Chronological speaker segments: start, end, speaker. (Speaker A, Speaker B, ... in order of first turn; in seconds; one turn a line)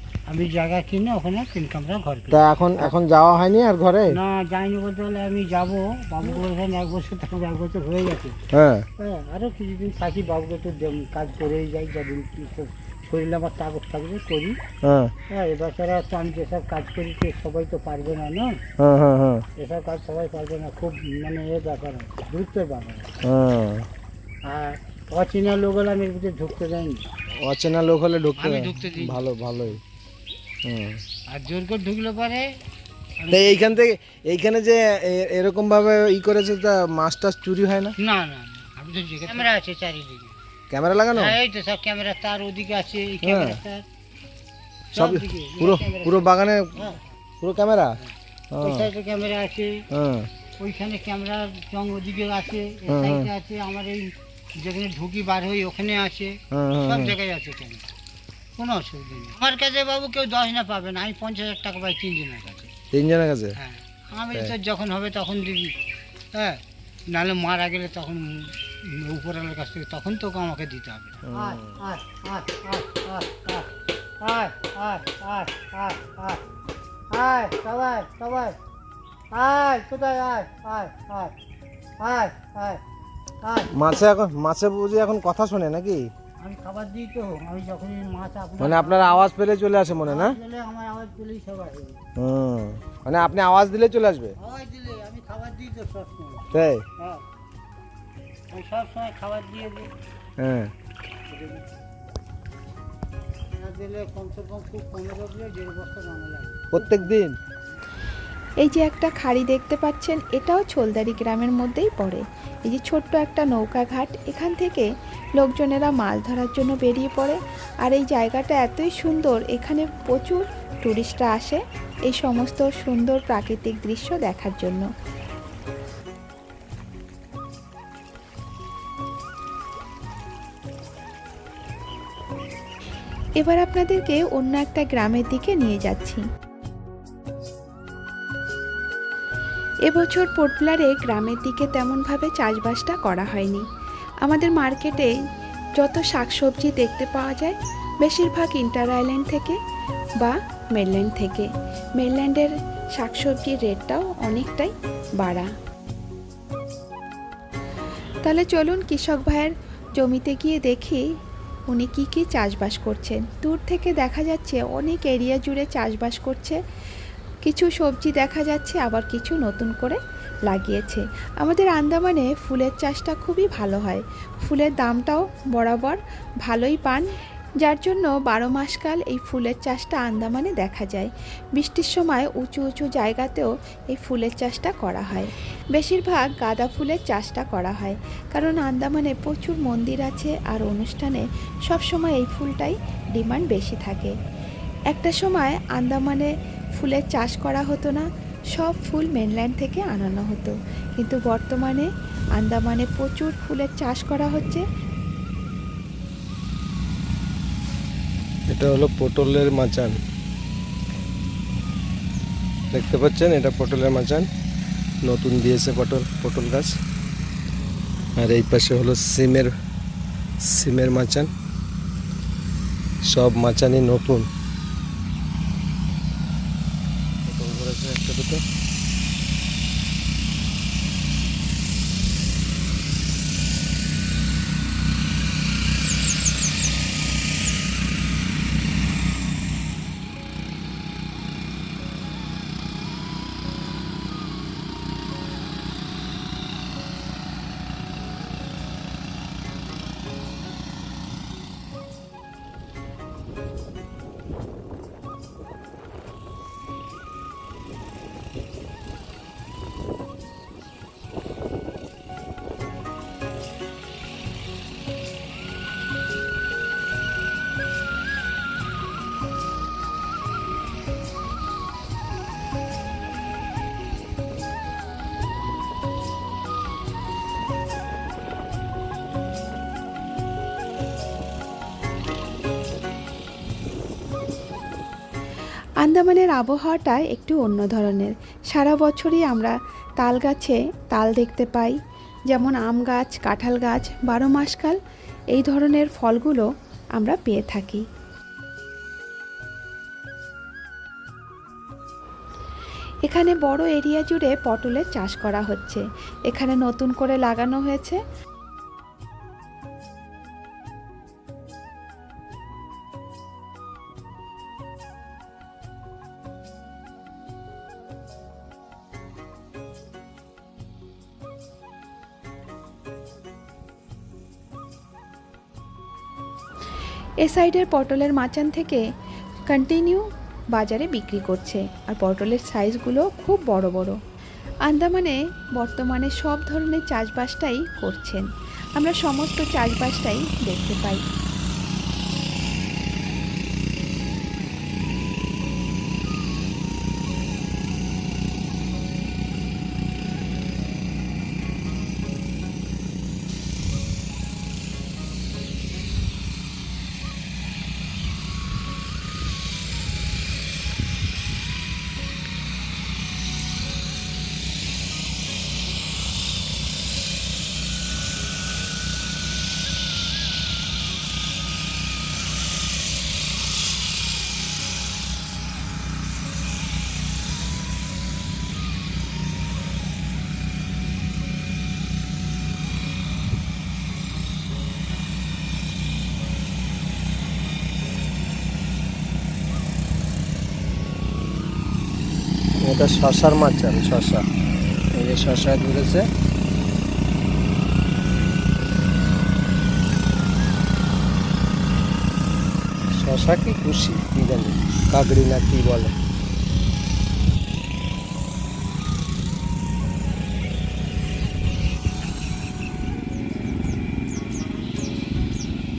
Speaker A: 0.2-2.9
Speaker B: 2.3-4.2
Speaker A: 4.1-8.3
Speaker B: 8.5-8.9
Speaker A: 9.0-14.6
Speaker B: 14.8-15.1
Speaker A: 15.3-18.6
Speaker B: 18.8-19.4
Speaker A: 19.6-23.1
Speaker B: 23.2-23.9
Speaker A: 24.4-27.0
Speaker B: 27.4-29.8
Speaker A: 28.4-29.2
Speaker B: 30.6-31.0
Speaker A: 31.3-32.5
Speaker A: 33.2-33.8
Speaker B: 33.3-38.0
Speaker A: 38.0-40.3
Speaker B: 40.7-41.4
Speaker A: 41.1-43.9
Speaker B: 43.2-43.6
Speaker A: 44.9-47.1
Speaker B: 44.9-48.0
Speaker B: 48.5-48.9
Speaker A: 48.6-49.8
Speaker B: 49.9-50.3
Speaker A: 50.6-57.9
Speaker B: 52.9-53.3
Speaker B: 56.5-57.1
Speaker A: 58.6-62.7
Speaker B: 62.9-63.6
Speaker A: 63.5-65.7
Speaker B: 64.3-64.6
Speaker A: 66.3-73.7
Speaker B: 71.3-71.7
Speaker A: 74.2-76.4
Speaker A: 77.1-78.6
Speaker A: 79.3-81.3
Speaker A: 82.0-82.8
Speaker A: 83.4-83.7
Speaker B: 83.7-86.1
Speaker A: 86.4-89.3
Speaker B: 88.6-90.4
Speaker A: 90.0-92.0
Speaker B: 92.2-94.3
Speaker A: 94.4-97.2
Speaker B: 96.5-96.8
Speaker A: 98.5-99.9
Speaker B: 100.4-100.7
Speaker A: 101.3-101.6
Speaker A: 103.5-107.1
Speaker B: 106.7-107.4
Speaker C: 108.6-124.8
Speaker C: 133.4-136.2
Speaker C: 139.9-143.7
Speaker C: 144.2-145.2
Speaker C: 145.8-149.6
Speaker C: 150.2-155.5
Speaker C: 158.2-161.1
Speaker C: 161.7-166.6
Speaker C: 167.4-177.1
Speaker C: 177.6-194.1
Speaker C: 194.9-204.6
Speaker B: 208.5-210.0
Speaker B: 212.7-214.2
Speaker B: 215.1-216.7
Speaker B: 218.2-219.5
Speaker B: 220.4-221.3
Speaker B: 223.1-224.2
Speaker B: 227.3-228.4
Speaker C: 285.8-291.8
Speaker C: 292.3-294.8
Speaker C: 295.3-297.8
Speaker C: 303.0-308.0
Speaker C: 327.2-328.8
Speaker C: 329.5-334.0
Speaker C: 334.6-341.0
Speaker B: 392.6-394.2
Speaker B: 394.9-396.0
Speaker B: 402.9-405.9